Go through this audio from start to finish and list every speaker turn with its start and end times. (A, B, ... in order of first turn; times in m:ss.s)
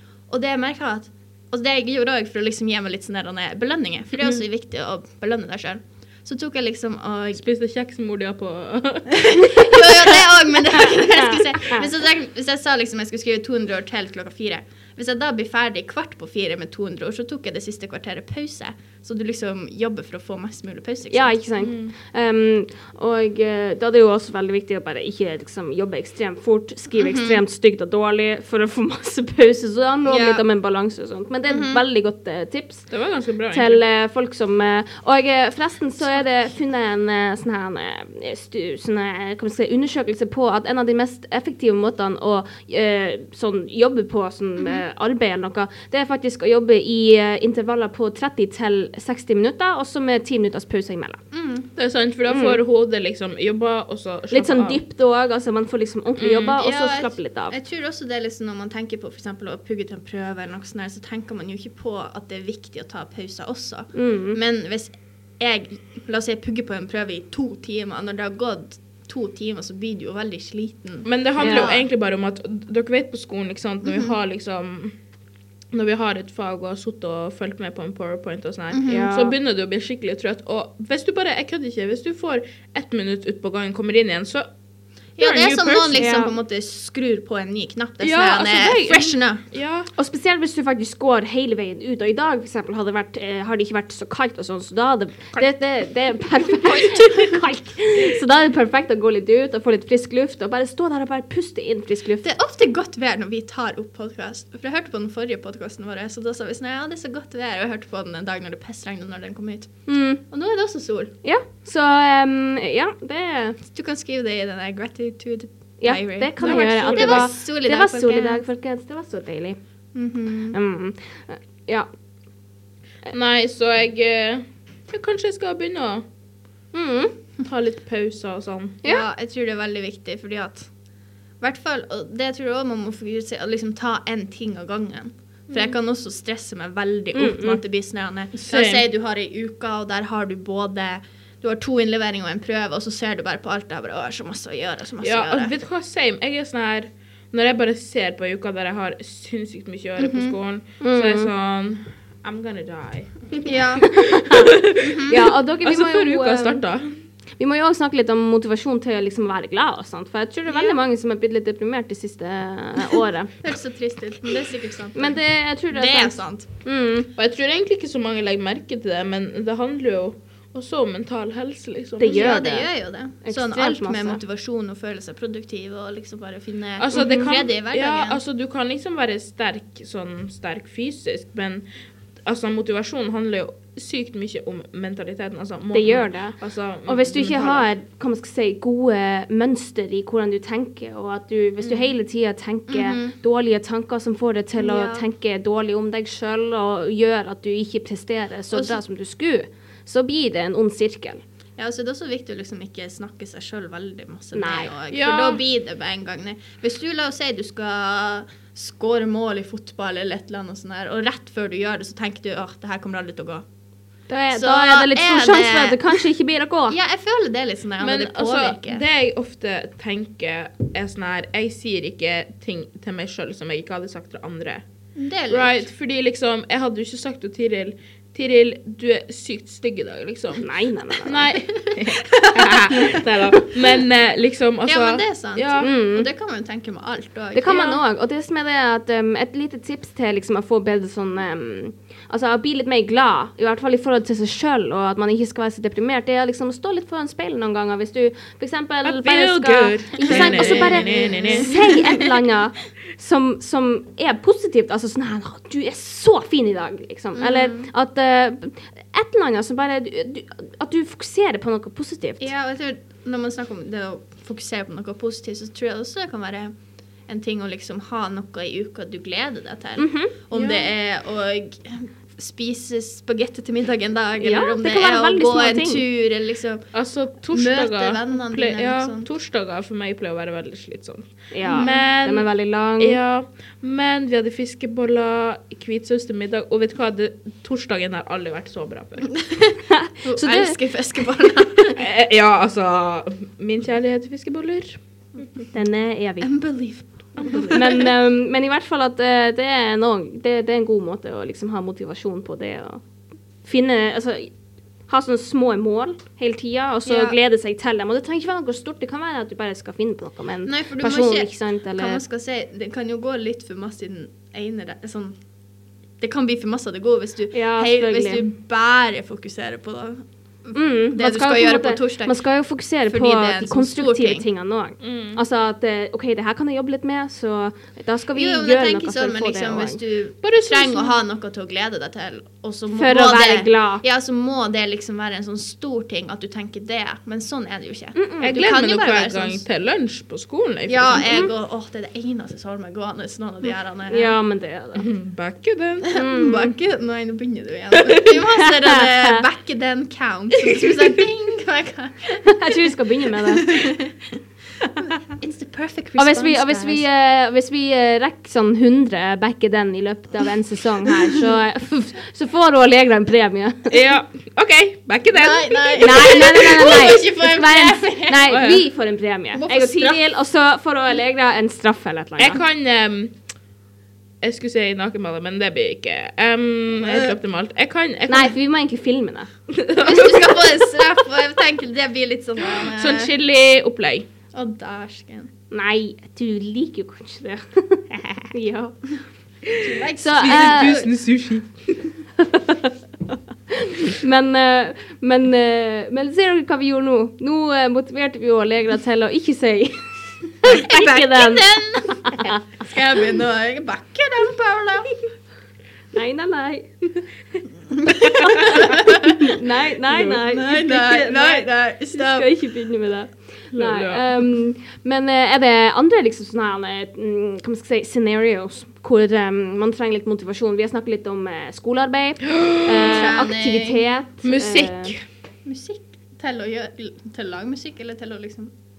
0:00.3-0:07.4 A
0:07.3-0:09.3 B
0:09.1-0:21.4 A
0:09.4-0:09.7 C
0:10.7-0:11.8 C
0:21.1-0:32.9 C
0:21.6-0:21.9 B
0:26.9-0:27.4 A
0:30.0-0:30.4 A
0:31.5-0:31.8 A
0:32.9-0:33.8 B
0:33.5-0:51.2 C
0:51.3-0:51.7 A
0:51.8-0:54.8 B
0:52.3-0:52.6 C
0:54.3-0:57.6 C
0:56.2-0:56.6 B
0:56.5-1:11.9 A
1:03.9-1:04.4 C
1:11.0-1:14.9 B
1:11.4-1:11.7 C
1:13.8-1:14.1 A
1:15.7-1:24.5 B
1:18.7-1:19.1 A
1:18.8-1:19.3 C
1:25.2-1:26.1 B
1:25.2-1:29.4 A
1:26.0-1:26.3 C
1:28.0-1:29.9 B
1:30.0-1:42.3 C
1:42.2-1:51.1 A
1:49.9-1:50.2 C
1:51.2-1:53.6 C
1:53.7-1:58.4 A
1:55.8-1:59.6 C
1:56.4-1:57.3 B
1:59.9-2:00.6 A
2:00.5-2:01.9 C
2:03.1-2:06.0 B
2:06.7-2:07.1 C
2:07.4-2:08.8 B
2:08.8-2:10.7 A
2:11.4-2:25.5 A
2:17.1-2:17.6 C
2:18.3-2:18.8 B
2:25.0-2:33.3 B
2:30.0-2:30.3 A
2:30.8-2:31.3 C
2:33.4-2:34.0 A
2:33.8-2:36.6 C
2:33.9-2:36.9 B
2:34.8-2:35.2 A
2:37.4-2:43.3 C
2:40.5-2:40.8 A
2:43.4-2:45.2 A
2:44.9-2:47.1 C
2:45.7-2:46.5 A
2:47.2-2:52.3 B
2:52.0-2:52.7 C
2:52.0-2:58.2 A
2:53.2-2:54.2 C
2:56.8-3:01.6 B
3:02.2-3:07.7 B
3:05.7-3:21.2 C
3:12.7-3:13.1 A
3:14.6-3:15.0 A
3:18.5-3:18.8 A
3:21.6-3:33.4 A
3:24.3-3:24.7 C
3:24.9-3:25.4 B
3:34.1-3:36.8 C
3:34.3-3:36.0 A
3:36.7-3:38.8 A
3:37.8-3:44.6 B
3:44.9-3:45.7 A
3:45.3-3:50.4 B
3:50.4-3:51.3 C
3:51.0-3:55.7 B
3:51.3-3:53.4 A
3:54.6-3:57.5 A
3:55.6-3:56.1 C
3:57.3-4:22.3 C
3:57.5-3:57.8 B
4:08.8-4:11.8 B
4:10.0-4:12.1 A
4:17.1-4:17.7 A
4:22.2-4:26.5 A
4:27.1-4:36.6 A
4:29.8-4:30.1 C
4:30.3-4:30.7 B
4:34.2-4:35.8 C
4:36.7-4:49.2 B
4:37.3-4:39.1 A
4:41.3-4:43.0 C
4:41.4-4:41.7 A
4:49.1-4:51.8 A
4:49.7-4:50.6 C
4:51.7-4:54.8 B
4:55.5-4:56.3 C
4:56.2-4:57.9 A
4:57.2-4:57.5 B
4:57.5-5:02.8 C
5:03.4-5:04.3 C
5:04.9-5:12.0 C
5:06.8-5:07.2 A
5:10.4-5:15.2 A
5:16.0-5:22.2 A
5:17.3-5:18.2 C
5:20.5-5:29.8 C
5:22.8-5:24.2 A
5:24.8-5:25.2 B
5:28.1-5:39.4 A
5:30.2-5:31.0 B
5:32.7-5:33.8 C
5:37.9-5:38.4 C
5:38.2-5:41.1 B
5:40.7-5:44.1 A
5:43.9-5:44.9 C
5:44.8-5:45.9 B
5:45.8-5:54.2 A
5:45.9-5:46.5 C
5:47.7-5:48.1 B
5:48.3-5:49.2 C
5:52.2-5:53.6 C
5:54.8-5:56.8 A
5:56.0-6:03.8 C
6:03.7-6:06.2 B
6:05.1-6:08.4 A
6:05.8-6:12.4 C
6:08.3-6:08.6 B
6:09.3-6:10.0 A
6:12.2-6:13.1 B
6:14.2-6:18.3 B
6:16.8-6:17.2 A
6:18.1-6:19.3 C
6:19.5-6:20.7 B
6:19.8-6:23.1 A
6:22.6-6:24.1 B
6:24.3-6:25.3 A
6:25.5-6:28.8 C
6:29.5-6:31.8 B
6:29.6-6:30.9 A
6:30.0-6:30.8 C
6:32.2-6:42.4 C
6:40.4-6:44.9 A
6:45.9-6:46.7 C
6:47.7-6:49.2 A
6:47.9-7:04.9 C
6:50.2-6:52.3 A
6:53.5-6:54.2 B
7:02.3-7:03.0 B
7:02.8-7:03.8 A
7:04.2-7:05.0 B
7:05.4-7:08.5 A